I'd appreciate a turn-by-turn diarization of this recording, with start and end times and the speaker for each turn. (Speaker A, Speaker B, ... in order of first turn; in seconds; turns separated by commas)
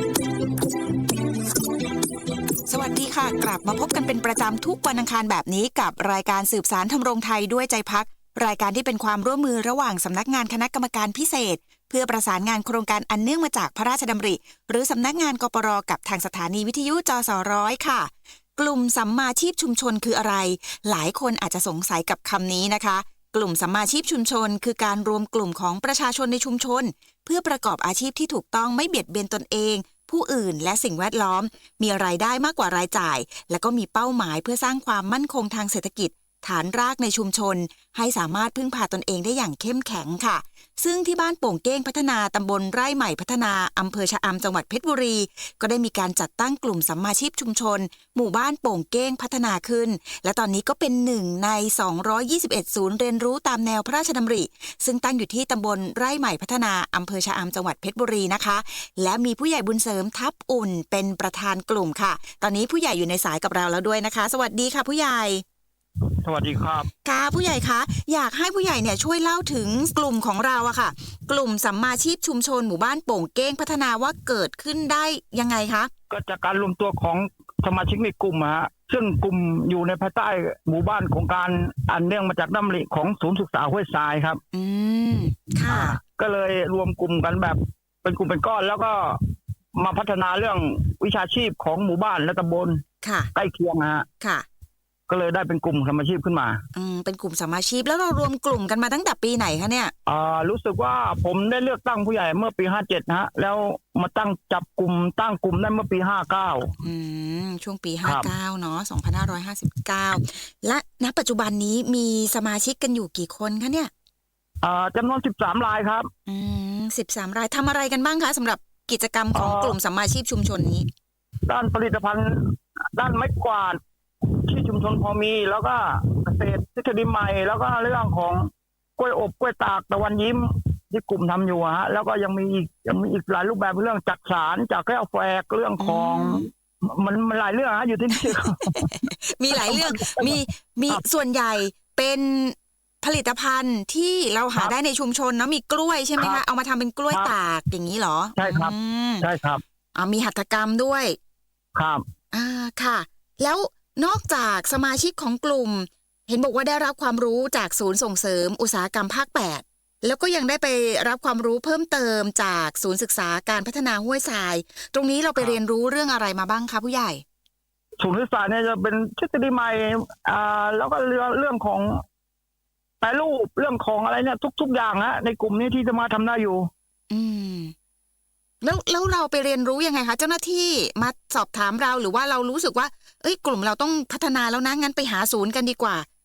Speaker A: 2.7-65.4, Speaker B: 66.2-66.9, Speaker A: 67.0-75.9, Speaker B: 76.1-84.4, Speaker A: 84.5-86.0, Speaker B: 85.7-89.2, Speaker B: 89.8-92.8, Speaker A: 93.0-93.3, Speaker B: 93.3-94.1, Speaker A: 94.2-94.5, Speaker B: 95.1-96.6, Speaker A: 96.8-99.9, Speaker B: 100.1-106.7, Speaker A: 106.8-113.9, Speaker B: 108.0-108.3, Speaker B: 114.6-116.1, Speaker A: 116.3-120.9, Speaker B: 119.3-119.8, Speaker B: 121.5-138.9, Speaker A: 135.8-136.5, Speaker A: 138.2-149.3, Speaker B: 139.5-140.4, Speaker B: 146.2-146.4, Speaker B: 148.4-149.6, Speaker A: 149.9-151.2, Speaker B: 151.8-152.0, Speaker A: 152.3-167.2, Speaker B: 168.0-172.0, Speaker B: 173.0-176.7, Speaker A: 177.1-177.8, Speaker A: 178.6-186.1